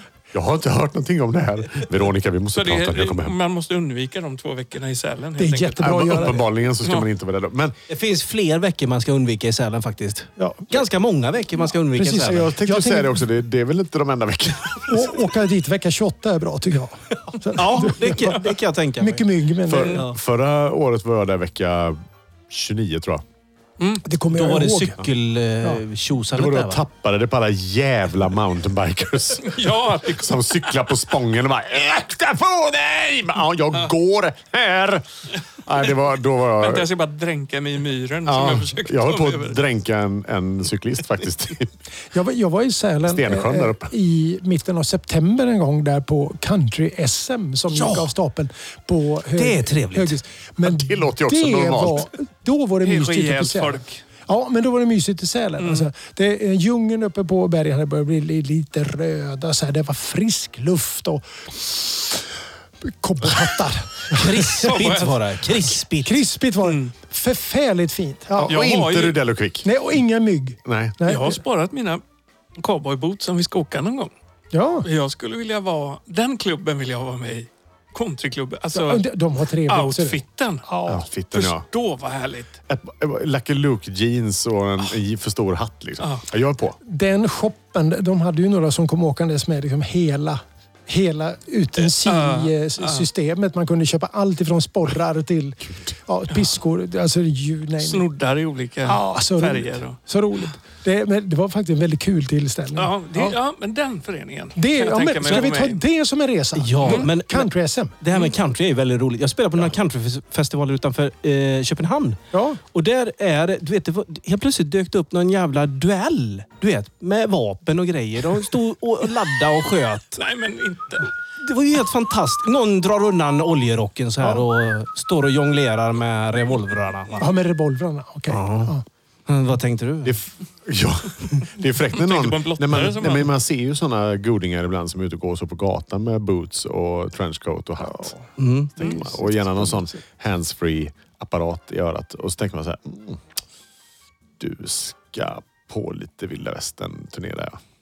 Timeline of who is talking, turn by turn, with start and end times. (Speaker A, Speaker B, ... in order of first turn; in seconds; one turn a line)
Speaker A: 0.3-3.4
Speaker B: 2.5-6.1
Speaker C: 5.4-6.4
Speaker A: 5.8-7.8
Speaker D: 7.9-12.5
Speaker C: 10.4-10.8
Speaker C: 11.9-13.2
Speaker A: 12.1-15.1
Speaker C: 14.9-20.0
Speaker D: 17.5-19.2
Speaker A: 19.6-23.2
Speaker D: 19.9-20.2
Speaker C: 24.0-25.0
Speaker D: 24.3-26.8
Speaker A: 26.3-35.0
Speaker B: 29.4-30.8
Speaker A: 35.6-36.9
Speaker B: 36.6-39.6
Speaker A: 38.2-41.7
Speaker C: 42.1-62.2
Speaker A: 43.0-43.9
Speaker D: 47.7-48.1
Speaker D: 49.3-50.1
Speaker A: 50.6-52.1
Speaker B: 52.8-54.0
Speaker B: 55.6-55.9
Speaker C: 62.8-64.5
Speaker D: 64.1-66.2
Speaker B: 64.6-65.7
Speaker C: 66.0-68.5
Speaker B: 66.6-66.9
Speaker A: 68.4-69.8
Speaker B: 68.5-69.2
Speaker C: 69.6-71.4
Speaker A: 70.6-71.0
Speaker B: 71.0-72.0
Speaker B: 72.6-74.1
Speaker C: 74.5-74.8
Speaker B: 74.8-79.0
Speaker C: 78.7-81.0
Speaker B: 79.7-80.6
Speaker A: 80.9-81.6
Speaker B: 81.3-82.5
Speaker A: 82.7-86.8
Speaker C: 86.8-98.1
Speaker B: 91.8-93.1
Speaker B: 97.8-100.0
Speaker C: 98.8-103.4
Speaker B: 102.7-105.8
Speaker C: 104.5-107.9
Speaker D: 106.5-120.2
Speaker B: 106.8-107.1
Speaker C: 112.3-112.6
Speaker B: 120.2-121.1
Speaker D: 121.4-127.3
Speaker C: 124.2-124.4
Speaker C: 127.2-128.8
Speaker D: 128.3-128.7
Speaker D: 129.3-130.2
Speaker A: 130.0-138.1
Speaker B: 131.9-133.3
Speaker C: 137.8-138.2
Speaker D: 138.4-139.0
Speaker A: 138.7-143.2
Speaker A: 144.4-147.6